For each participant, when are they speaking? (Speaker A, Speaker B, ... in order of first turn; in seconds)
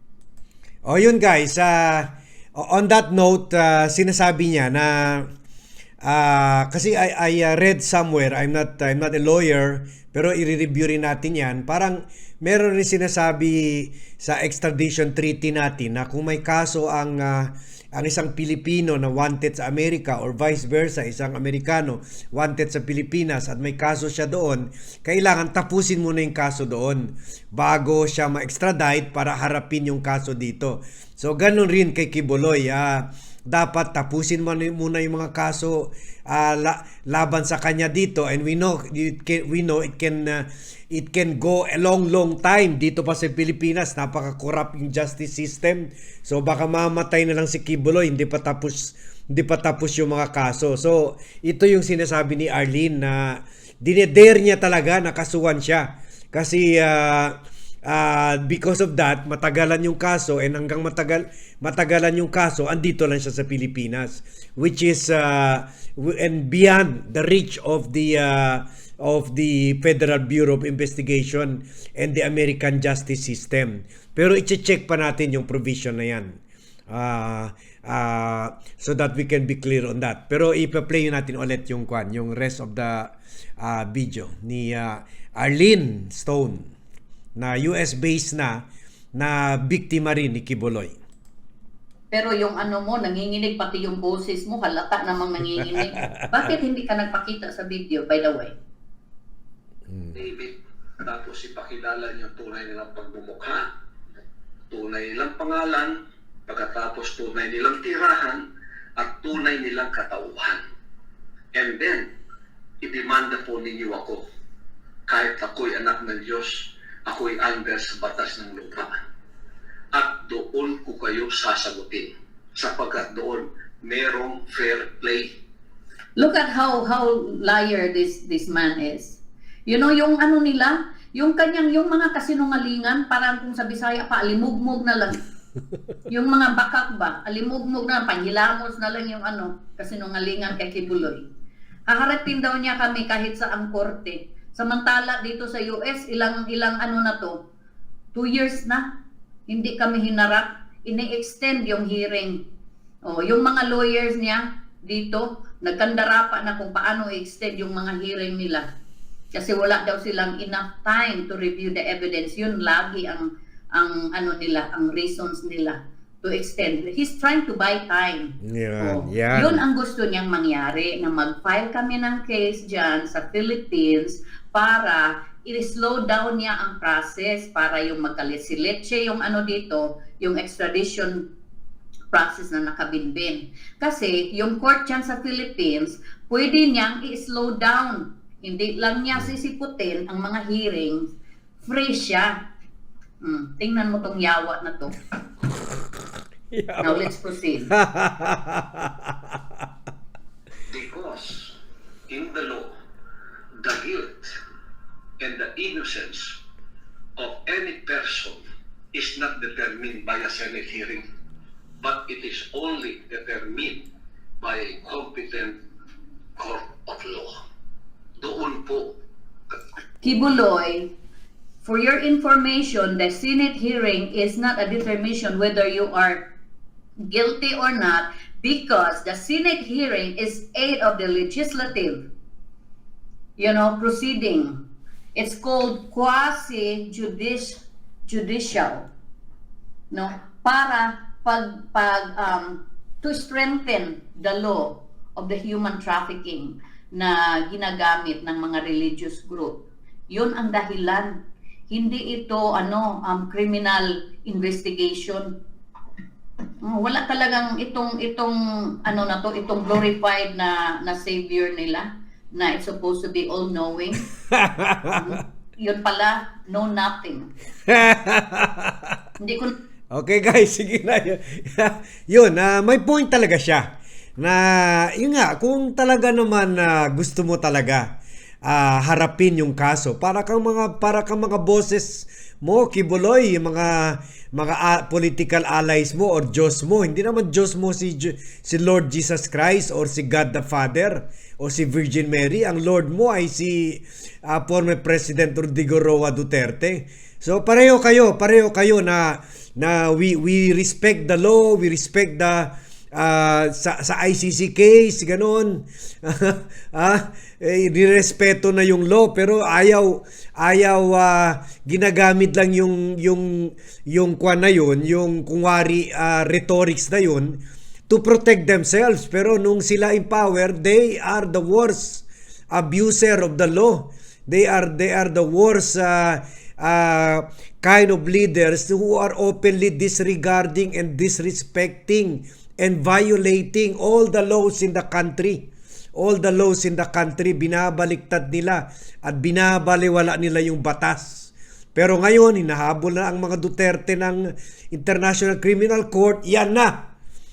Speaker A: 0.8-5.3, 6.0-86.7, 87.3-91.0, 99.9-100.2, 168.4-169.6, 196.5-197.1, 197.7-199.1, 264.3-265.0, 267.7-268.9, 269.9-273.7, 274.2-277.9, 278.4-346.9
Speaker B: 92.1-98.5, 126.2-135.2, 136.1-141.2, 141.9-147.4, 148.1-148.9, 149.5-152.4, 153.1-158.7, 159.3-181.2, 182.1-191.1, 191.6-192.3, 193.2-194.9, 196.8-197.7, 220.0-220.9, 221.6-226.3, 227.1-232.1, 233.4-234.6, 235.1-238.9, 239.9-251.2, 251.7-255.3, 256.6-264.1, 264.9-267.3, 269.2-269.5
Speaker C: 100.1-103.7, 104.7-106.0, 106.5-110.6, 111.5-112.1, 112.8-114.2, 115.1-119.0, 119.9-125.3, 200.7-201.6, 202.1-202.7, 203.6-204.3, 205.2-206.4, 207.2-208.4, 208.9-211.0, 211.8-213.9, 214.4-215.6, 216.4-217.3, 218.2-219.0